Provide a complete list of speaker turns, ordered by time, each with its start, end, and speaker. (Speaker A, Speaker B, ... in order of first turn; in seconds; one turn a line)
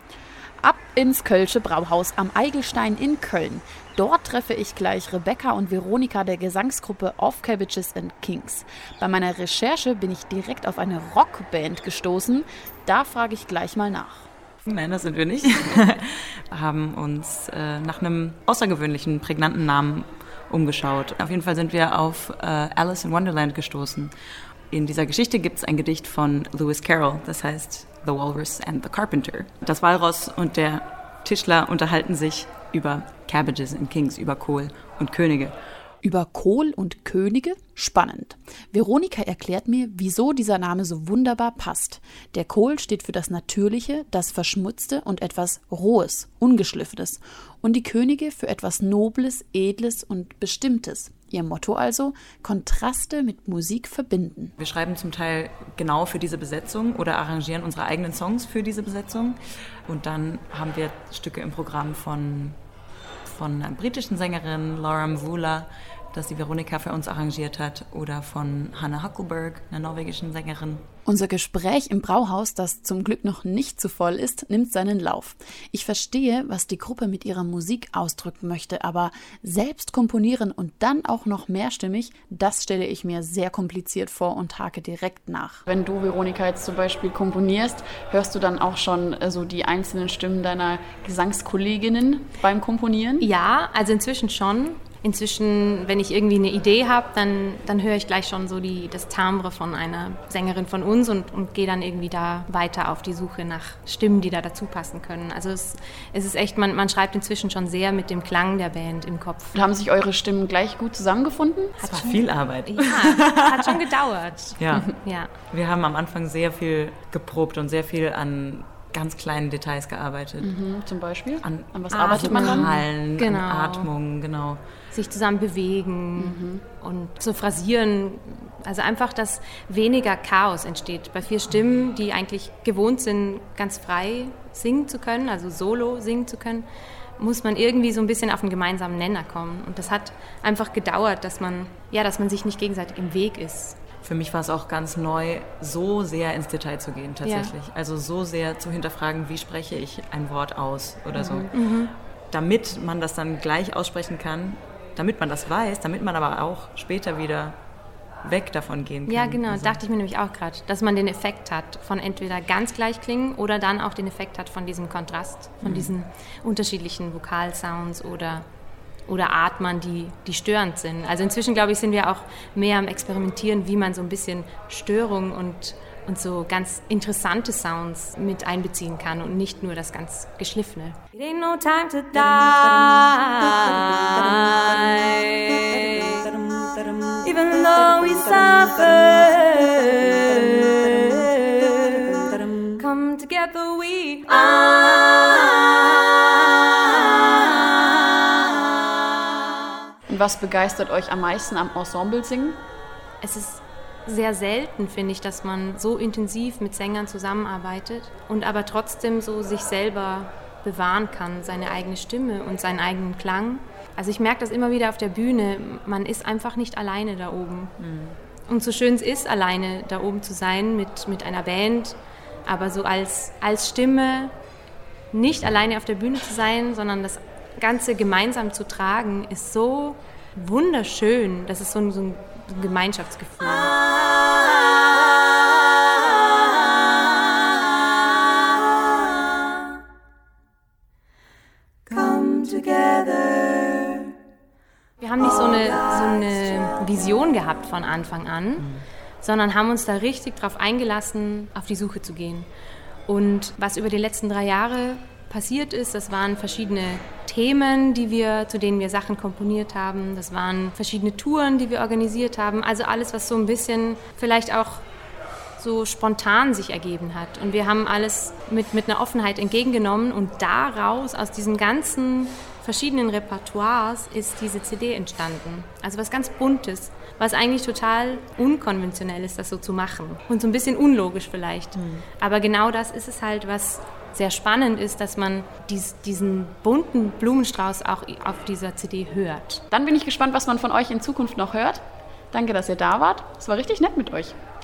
Speaker A: 0.6-14.3
Speaker B: 14.6-24.1
Speaker B: 24.7-35.5
Speaker A: 36.0-54.5
Speaker B: 54.6-62.6
Speaker B: 63.2-70.8
Speaker A: 71.0-93.3
Speaker C: 93.2-109.6
Speaker A: 109.5-111.8
Speaker C: 111.8-115.3
Speaker B: 111.8-113.8
Speaker B: 114.6-115.0
Speaker B: 115.5-120.5
Speaker A: 120.4-122.7
Speaker B: 121.4-124.6
Speaker C: 121.9-123.9
Speaker C: 124.9-136.7
Speaker A: 126.2-126.6
Speaker C: 137.2-143.8
Speaker B: 144.0-151.5
Speaker C: 147.2-147.5
Speaker A: 151.2-151.4
Speaker C: 151.5-151.9
Speaker B: 152.3-157.6
Speaker B: 158.2-159.8
Speaker C: 159.1-168.4
Speaker B: 165.6-165.9
Speaker C: 169.1-186.4
Speaker C: 187.1-192.0
Speaker C: 192.6-197.2
Speaker A: 200.1-202.6
Speaker C: 203.2-217.8
Speaker B: 217.8-218.2
Speaker C: 218.5-224.3
Speaker C: 225.1-233.9
Speaker B: 241.9-242.2
Speaker C: 242.2-243.6
Speaker C: 245.0-248.7
Speaker C: 249.2-252.5
Speaker C: 253.1-264.8
Speaker C: 265.6-289.6
Speaker A: 289.7-294.3